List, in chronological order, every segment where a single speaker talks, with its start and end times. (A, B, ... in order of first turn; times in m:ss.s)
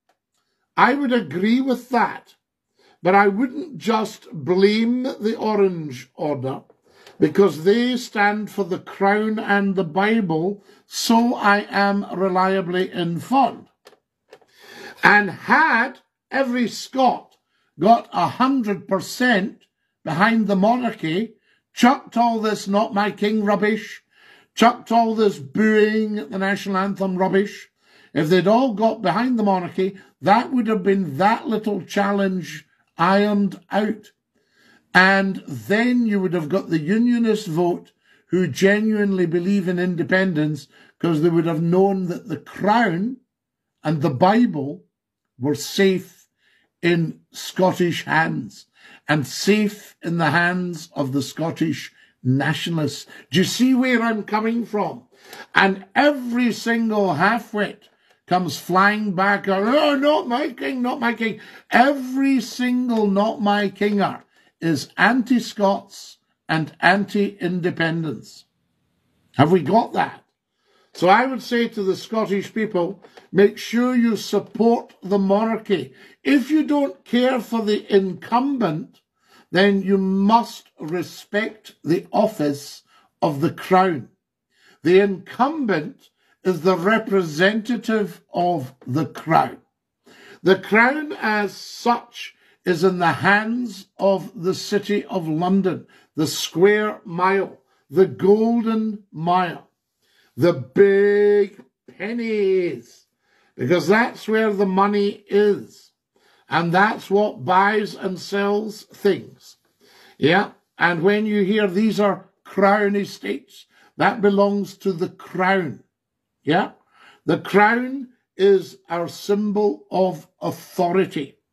0:00.8-0:02.4 A
0:03.0-0:06.6 A
0:07.2-0:13.7 A
0:15.0-0:24.0 A
0:24.6-0:34.1 A
0:35.0-0:43.2 A
0:43.8-0:44.8 A
0:45.4-0:46.2 A
0:46.8-1:08.5 A
1:09.4-1:10.2 A
1:10.9-1:19.0 A
1:19.5-1:24.1 A
1:24.8-1:29.6 A
1:30.4-1:39.7 A
1:40.4-1:43.1 A
1:43.6-1:45.9 A
1:46.5-1:49.6 A
1:50.2-1:55.8 A
1:56.4-1:56.7 A
1:57.3-2:01.4 A